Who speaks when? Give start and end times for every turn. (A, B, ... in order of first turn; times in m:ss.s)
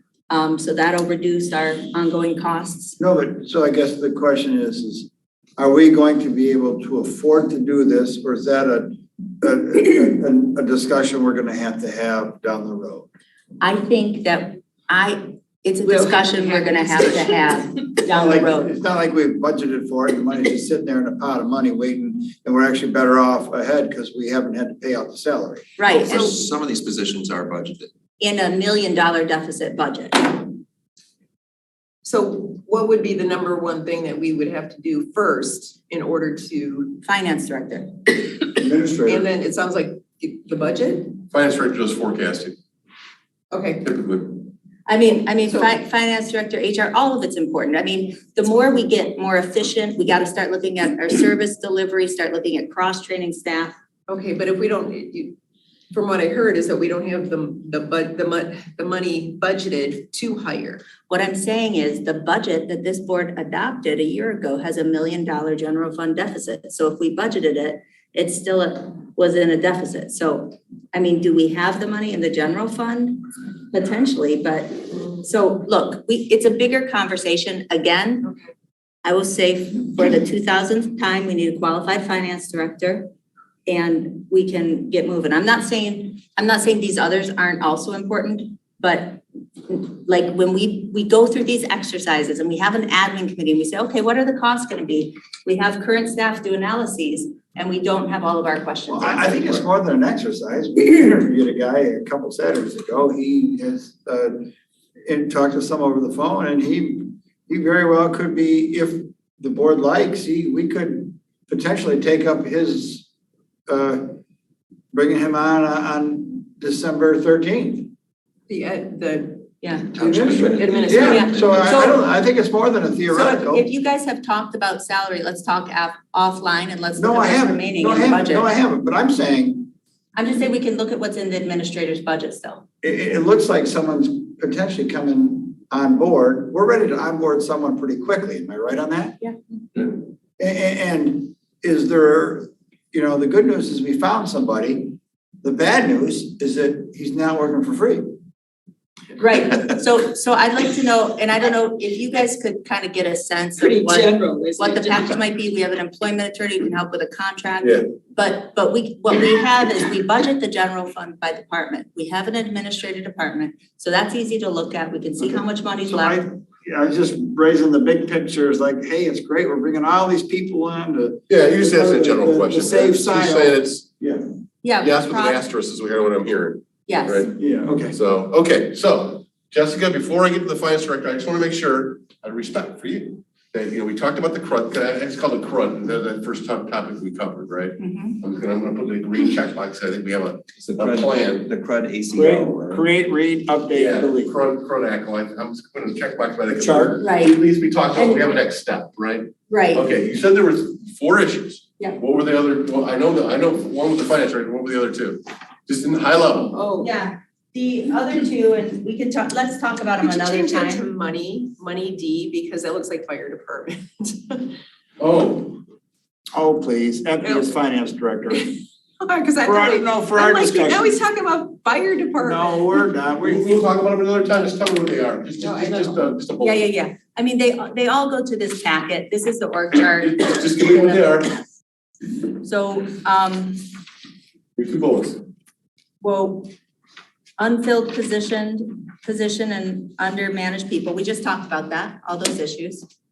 0:00.3-0:03.0 A
0:03.0-0:13.1 B
0:13.6-0:18.7 A
0:15.9-0:17.6 C
0:18.1-0:25.8 B
0:25.8-0:26.4 A
0:25.9-0:27.9 D
0:28.2-0:30.6 A
0:32.0-0:37.0 C
0:37.0-0:37.9 A
0:38.6-0:39.3 B
0:39.1-0:41.2 C
0:41.3-0:42.5 E
0:43.5-0:43.9 C
0:43.8-0:44.2 E
0:44.9-0:53.8 A
0:54.1-0:55.4 C
0:55.9-1:00.9 C
1:01.1-1:18.3 A
1:19.0-1:23.1 A
1:23.7-1:39.6 A
1:38.9-1:44.5 B
1:45.1-1:53.1 B
1:53.7-1:54.1 B
1:54.9-1:57.9 B
1:58.5-2:01.8 C
1:59.6-1:59.9 A
1:59.9-2:03.6 B
2:00.0-2:01.6 D
2:01.1-2:02.0 A
2:03.1-2:08.5 A
2:07.0-2:09.7 B
2:10.2-2:12.7 A
2:12.8-2:19.2 B
2:20.4-2:28.0 B
2:29.2-2:46.2 A
2:34.1-2:34.4 C
2:45.2-2:54.2 B
2:51.3-2:53.8 E
2:54.6-2:55.4 A
2:54.8-2:57.3 E
2:56.8-2:57.3 A
2:57.4-2:58.0 B
2:57.9-3:11.4 E
3:07.8-3:08.2 A
3:10.6-3:12.8 D
3:12.1-3:14.3 B
3:13.7-3:26.6 E
3:16.5-3:17.0 B
3:17.0-3:17.4 A
3:18.0-3:18.2 A
3:19.5-3:19.8 A
3:26.5-3:26.9 C
3:26.8-3:30.8 A
3:30.0-3:34.5 C
3:35.0-3:35.6 E
3:36.3-3:38.5 B
3:37.2-3:37.5 C
3:38.3-3:42.8 C
3:39.4-3:41.0 B
3:42.2-3:43.5 B
3:43.2-3:46.6 E
3:45.4-3:46.0 C
3:46.4-3:51.2 A
3:50.0-3:51.3 E
3:52.2-3:53.7 A
3:54.6-3:55.2 E
3:56.0-3:56.5 A
3:57.4-4:02.9 A